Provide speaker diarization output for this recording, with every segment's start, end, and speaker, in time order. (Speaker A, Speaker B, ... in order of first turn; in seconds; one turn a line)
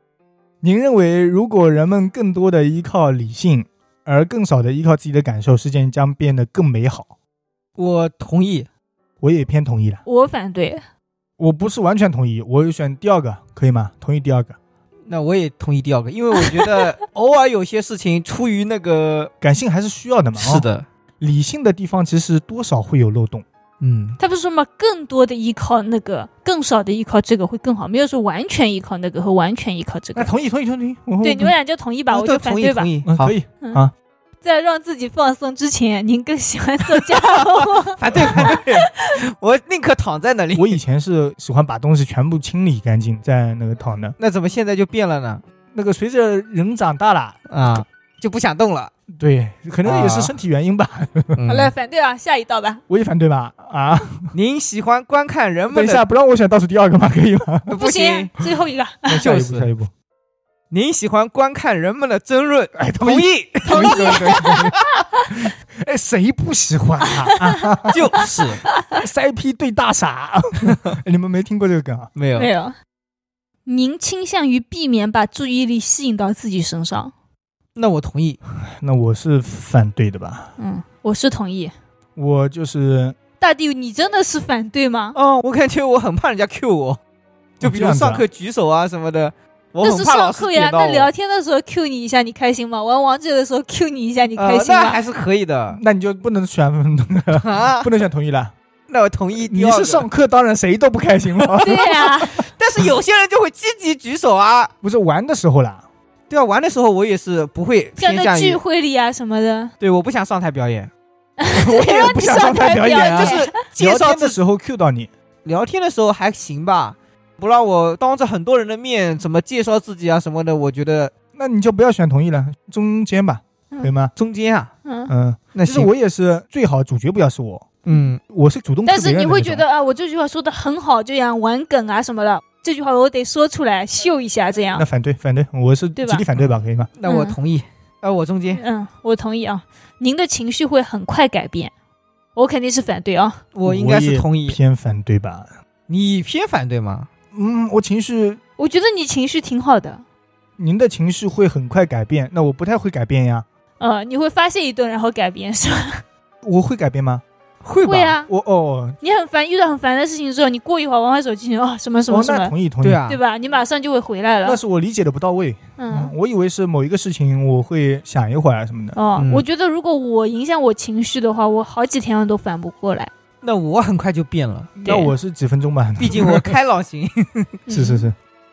Speaker A: 0.6-7.1
Speaker B: 7.8-8.7
Speaker A: 9.2-10.0
Speaker C: 10.1-10.8
Speaker A: 11.4-14.6
Speaker B: 15.1-19.3
Speaker C: 16.4-16.9
Speaker A: 19.4-20.7
Speaker B: 20.4-20.9
Speaker A: 21.2-23.4
Speaker B: 23.8-24.2
Speaker C: 24.2-30.3
Speaker A: 30.2-31.5
Speaker C: 31.2-32.9
Speaker B: 32.1-33.3
Speaker A: 33.0-33.9
Speaker C: 34.4-39.1
Speaker B: 37.2-40.8
Speaker A: 38.2-38.5
Speaker A: 40.5-44.1
Speaker B: 44.2-45.4
Speaker A: 45.7-47.4
Speaker B: 47.5-48.9
Speaker A: 49.1-51.4
Speaker B: 49.9-50.3
Speaker B: 51.4-51.7
Speaker C: 51.5-52.8
Speaker A: 52.9-54.3
Speaker B: 54.3-56.0
Speaker A: 55.7-57.7
Speaker B: 57.7-58.3
Speaker C: 57.7-59.2
Speaker A: 59.1-59.9
Speaker B: 59.2-59.7
Speaker B: 60.7-64.9
Speaker A: 62.8-64.8
Speaker C: 63.7-64.6
Speaker A: 65.3-68.1
Speaker B: 67.9-68.6
Speaker A: 68.9-72.1
Speaker B: 72.2-72.5
Speaker C: 72.4-72.8
Speaker C: 73.7-77.1
Speaker B: 77.8-78.4
Speaker A: 78.7-80.5
Speaker C: 80.6-81.7
Speaker A: 82.2-83.2
Speaker C: 83.4-85.2
Speaker B: 85.2-87.0
Speaker A: 87.6-88.2
Speaker B: 87.6-91.1
Speaker C: 89.8-95.0
Speaker B: 94.4-95.8
Speaker A: 95.7-98.5
Speaker B: 97.4-97.9
Speaker B: 98.9-100.1
Speaker A: 99.4-102.5
Speaker C: 101.6-102.4
Speaker B: 102.6-104.7
Speaker A: 104.8-105.8
Speaker B: 106.3-108.6
Speaker C: 108.0-109.7
Speaker B: 109.8-110.9
Speaker C: 111.4-113.5
Speaker A: 111.5-115.1
Speaker B: 113.0-114.4
Speaker B: 115.5-121.1
Speaker A: 121.3-124.1
Speaker B: 124.2-124.7
Speaker C: 124.8-125.1
Speaker A: 125.1-129.6
Speaker B: 125.5-125.9
Speaker B: 127.8-128.2
Speaker C: 128.9-134.9
Speaker A: 134.8-136.9
Speaker C: 136.0-136.2
Speaker B: 137.0-138.6
Speaker C: 137.1-137.4
Speaker C: 138.5-141.7
Speaker C: 142.4-143.4
Speaker B: 143.5-144.6
Speaker A: 143.7-145.5
Speaker B: 145.9-147.1
Speaker A: 147.3-148.4
Speaker C: 148.6-150.0
Speaker A: 150.6-153.5
Speaker C: 153.8-156.0
Speaker A: 156.4-157.2
Speaker B: 157.6-158.1
Speaker C: 157.8-158.3
Speaker A: 158.3-159.0
Speaker C: 159.0-162.5
Speaker A: 162.1-163.0
Speaker B: 162.8-163.2
Speaker C: 163.1-164.6
Speaker A: 164.4-169.0
Speaker C: 165.8-166.1
Speaker C: 168.9-173.1
Speaker B: 169.2-169.4
Speaker B: 173.4-174.7
Speaker A: 174.8-176.6
Speaker C: 174.8-175.1
Speaker B: 176.0-177.6
Speaker C: 177.7-178.1
Speaker A: 177.7-178.2